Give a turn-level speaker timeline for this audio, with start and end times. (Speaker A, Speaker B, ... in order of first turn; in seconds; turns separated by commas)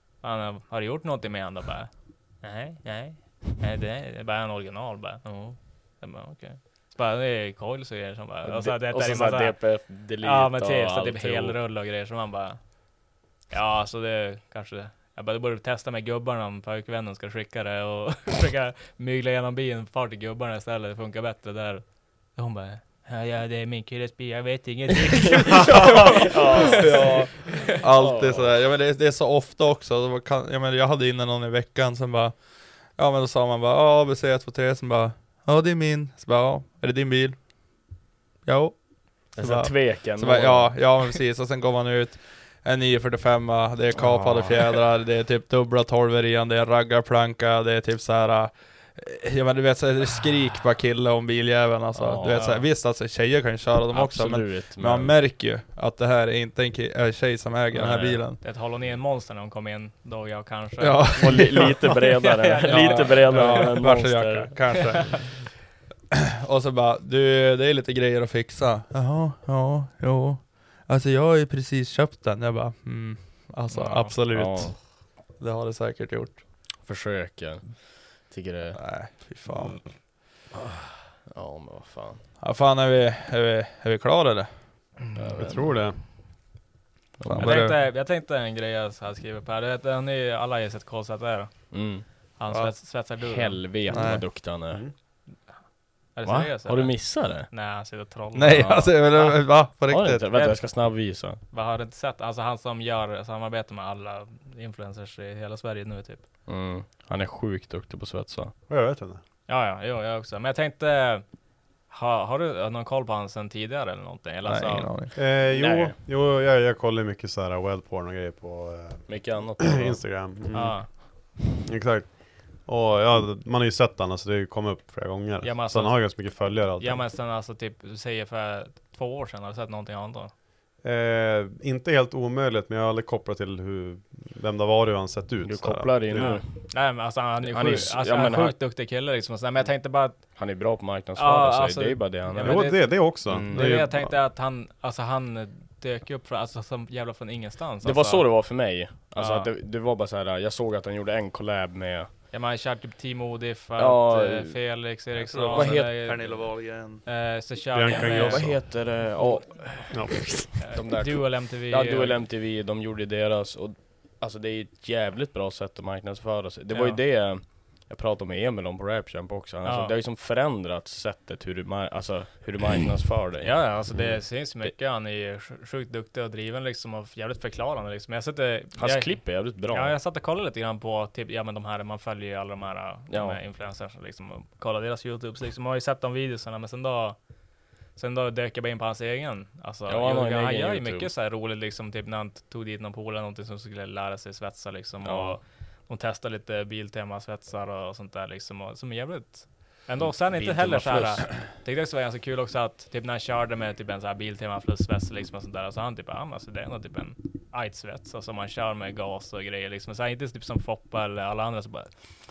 Speaker A: 0.2-1.9, Speaker A: 2.4-9.6, Speaker B: 8.4-11.6, Speaker A: 10.2-12.6, Speaker A: 13.5-27.7, Speaker B: 25.3-27.3, Speaker C: 26.7-37.4, Speaker B: 27.9-28.5, Speaker C: 38.5-58.4, Speaker B: 39.4-40.7, Speaker B: 44.0-44.7, Speaker B: 52.0-52.5, Speaker A: 52.4-52.6, Speaker B: 53.9-55.2, Speaker A: 57.7-63.8, Speaker C: 60.8-61.9, Speaker B: 61.2-64.5, Speaker C: 62.6-65.4, Speaker C: 66.1-74.8, Speaker A: 73.7-74.2, Speaker B: 74.3-74.7, Speaker C: 75.4-76.4, Speaker B: 76.8-78.9, Speaker C: 78.7-79.9, Speaker B: 80.5-82.2, Speaker C: 82.4-84.9, Speaker B: 85.2-85.8, Speaker D: 85.4-86.0, Speaker B: 87.2-87.7, Speaker C: 87.2-87.8, Speaker A: 87.4-91.7, Speaker B: 91.7-92.0, Speaker A: 92.4-93.7, Speaker B: 93.2-94.8, Speaker C: 93.9-94.3, Speaker A: 96.2-99.4, Speaker B: 96.2-97.5, Speaker C: 98.3-100.2, Speaker B: 98.5-98.9, Speaker B: 99.9-101.4, Speaker A: 100.3-100.9, Speaker A: 101.4-106.2, Speaker B: 106.5-108.5, Speaker D: 108.7-109.2, Speaker A: 109.5-111.2, Speaker A: 111.9-114.9, Speaker C: 114.5-115.1, Speaker D: 115.2-127.1, Speaker B: 115.5-116.0, Speaker B: 119.1-120.0, Speaker A: 120.5-120.9, Speaker A: 125.4-130.3, Speaker D: 130.8-136.4, Speaker B: 135.4-136.5, Speaker A: 136.2-140.4, Speaker B: 137.4-138.6, Speaker B: 140.2-143.8, Speaker A: 141.2-148.6, Speaker D: 142.4-144.2, Speaker B: 147.8-152.1, Speaker A: 149.1-149.5, Speaker A: 152.3-158.7, Speaker B: 153.8-154.6, Speaker C: 155.3-157.0, Speaker B: 155.5-156.0, Speaker D: 157.7-158.9, Speaker B: 157.9-160.0, Speaker A: 159.2-159.9, Speaker D: 159.9-160.6, Speaker A: 160.6-162.2, Speaker B: 160.7-174.1, Speaker A: 166.7-167.0, Speaker A: 169.7-169.9, Speaker A: 173.4-187.2, Speaker B: 178.8-179.9, Speaker B: 183.1-183.4, Speaker A: 187.9-211.9, Speaker B: 189.9-191.1, Speaker B: 195.0-195.4, Speaker B: 200.0-201.3